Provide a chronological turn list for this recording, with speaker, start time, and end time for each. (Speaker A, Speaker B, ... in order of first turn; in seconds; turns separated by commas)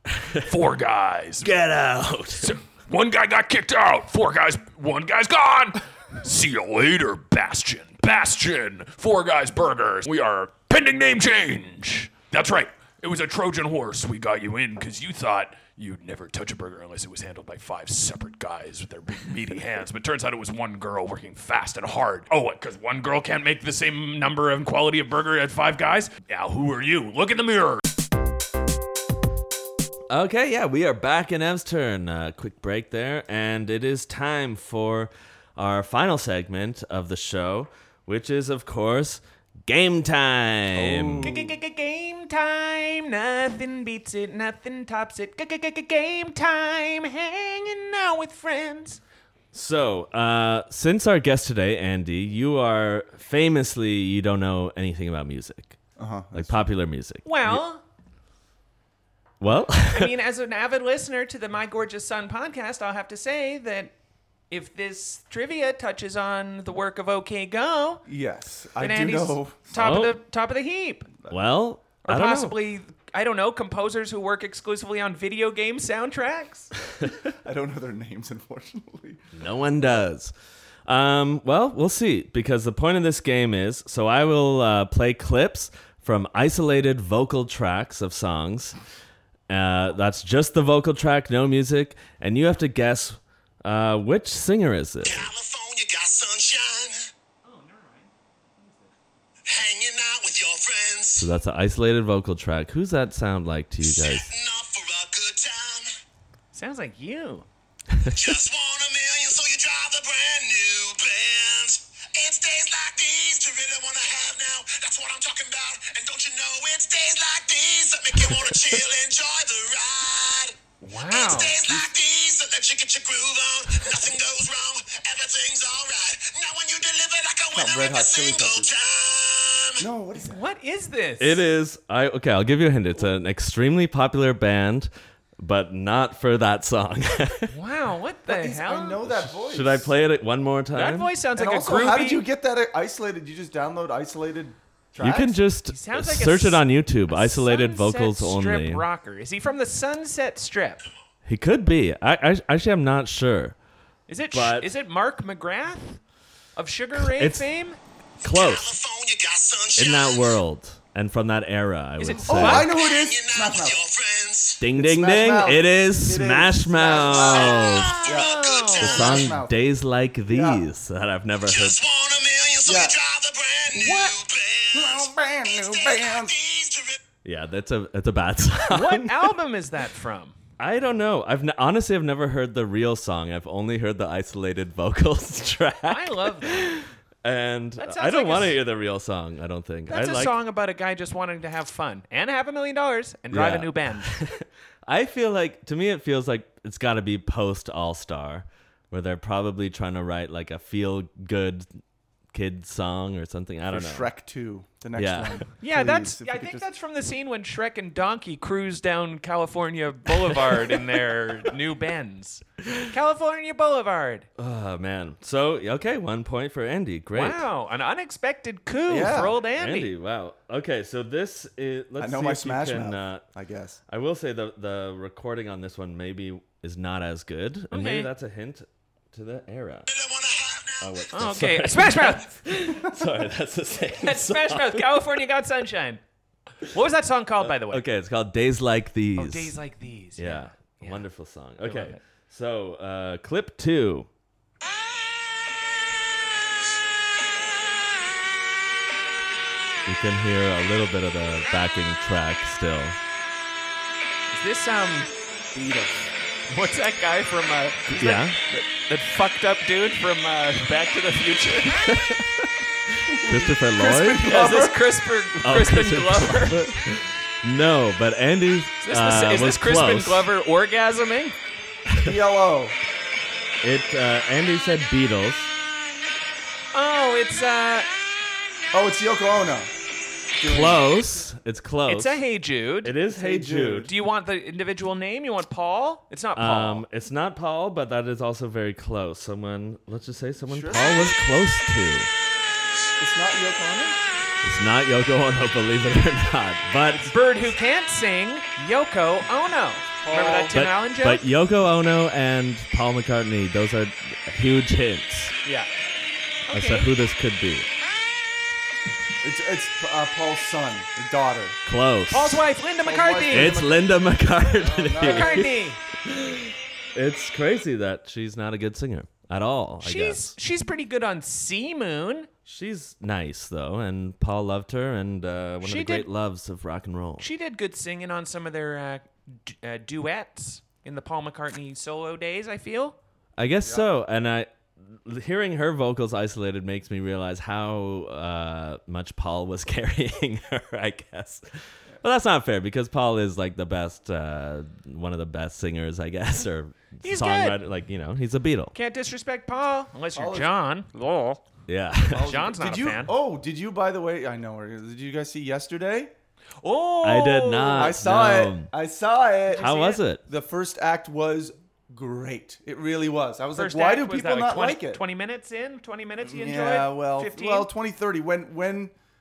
Speaker A: 0.4-1.5, Speaker B: 1.4-2.5, Speaker A: 2.4-27.8, Speaker B: 30.1-41.3, Speaker C: 40.7-41.5, Speaker D: 41.2-49.0, Speaker B: 49.5-55.8, Speaker C: 56.0-56.7, Speaker B: 56.3-57.6, Speaker D: 57.2-57.8, Speaker B: 59.4-60.1, Speaker D: 59.9-63.9, Speaker D: 64.5-68.0, Speaker C: 68.1-69.7, Speaker D: 68.8-71.1, Speaker B: 69.7-70.2, Speaker B: 71.3-72.5, Speaker D: 72.0-76.7, Speaker C: 77.4-79.4, Speaker B: 79.3-80.3, Speaker B: 80.9-88.8, Speaker B: 89.5-95.3, Speaker E: 95.0-97.0, Speaker D: 97.4-98.9, Speaker E: 99.5-101.3, Speaker B: 101.2-104.3, Speaker E: 103.8-105.9, Speaker D: 106.5-107.5, Speaker E: 108.1-129.8, Speaker B: 118.2-118.6, Speaker D: 120.8-121.5, Speaker C: 127.5-128.7, Speaker C: 129.8-130.4, Speaker D: 130.2-131.4, Speaker B: 131.2-137.5, Speaker D: 137.5-139.0, Speaker C: 138.3-139.9, Speaker B: 139.1-141.1, Speaker D: 140.7-142.2, Speaker C: 141.3-145.4, Speaker B: 145.0-148.8, Speaker D: 145.7-150.8, Speaker B: 151.2-153.5, Speaker D: 154.1-156.0, Speaker B: 154.3-154.7, Speaker D: 156.6-157.8, Speaker B: 157.0-157.4, Speaker B: 158.2-158.7, Speaker E: 158.2-160.4, Speaker B: 159.8-162.7, Speaker D: 162.0-162.7, Speaker C: 162.3-163.8, Speaker E: 162.6-164.6, Speaker B: 164.6-168.0, Speaker C: 164.7-169.6, Speaker D: 167.1-169.2, Speaker E: 168.0-168.8, Speaker B: 168.8-171.8, Speaker C: 170.3-170.6, Speaker E: 171.4-177.0, Speaker C: 172.6-172.9, Speaker D: 173.8-174.1, Speaker C: 174.7-176.3, Speaker B: 177.2-179.3, Speaker D: 178.7-180.3, Speaker B: 180.6-190.3, Speaker D: 185.9-186.8, Speaker D: 187.8-188.6, Speaker D: 189.9-194.2, Speaker B: 193.3-201.7, Speaker B: 202.3-204.1, Speaker C: 203.7-206.6, Speaker B: 204.9-205.5, Speaker D: 205.6-214.3, Speaker B: 214.4-217.5, Speaker D: 217.1-219.9, Speaker C: 218.9-219.4, Speaker B: 219.5-223.2, Speaker C: 222.0-223.8, Speaker B: 223.9-229.9, Speaker D: 227.7-228.1, Speaker E: 229.9-231.1, Speaker B: 230.8-234.9, Speaker D: 231.1-232.4, Speaker D: 234.0-236.0, Speaker D: 236.6-237.8, Speaker B: 237.4-239.5, Speaker D: 239.2-241.0, Speaker B: 240.2-244.1, Speaker D: 241.6-242.0, Speaker B: 249.8-253.0, Speaker D: 254.3-255.1, Speaker C: 255.5-256.1, Speaker D: 256.5-261.9, Speaker B: 257.9-258.4, Speaker B: 261.9-262.2, Speaker C: 263.1-264.8, Speaker B: 263.2-264.3, Speaker D: 263.8-266.7, Speaker B: 265.4-270.2, Speaker D: 268.8-271.4, Speaker B: 271.9-272.1, Speaker C: 272.0-272.8, Speaker B: 273.6-275.5, Speaker D: 276.7-277.9, Speaker C: 278.7-279.7, Speaker C: 280.4-280.9, Speaker B: 280.4-282.2, Speaker D: 281.9-282.9, Speaker B: 282.8-283.9, Speaker C: 283.0-283.9, Speaker D: 283.9-286.8, Speaker B: 286.4-292.1, Speaker C: 290.5-291.1, Speaker C: 293.0-294.0, Speaker B: 294.4-297.1, Speaker D: 297.0-301.2, Speaker C: 300.0-300.5, Speaker B: 300.5-305.4, Speaker D: 306.5-306.9, Speaker B: 306.5-307.7, Speaker C: 309.2-311.6, Speaker B: 311.6-312.4, Speaker D: 312.1-313.6, Speaker C: 312.8-315.5, Speaker B: 313.3-320.3, Speaker D: 315.0-315.8, Speaker D: 319.8-322.3, Speaker B: 322.4-327.2, Speaker D: 325.6-326.1, Speaker D: 327.2-332.9, Speaker B: 333.4-341.5, Speaker B: 342.0-348.7, Speaker D: 347.0-347.6, Speaker D: 348.7-351.4, Speaker C: 350.1-350.5, Speaker B: 351.7-352.3, Speaker C: 352.1-356.1, Speaker D: 352.1-353.1, Speaker D: 356.6-358.0, Speaker B: 357.0-358.7, Speaker C: 357.8-365.0, Speaker D: 359.5-360.0, Speaker B: 359.6-360.2, Speaker D: 363.6-367.7, Speaker C: 366.2-368.9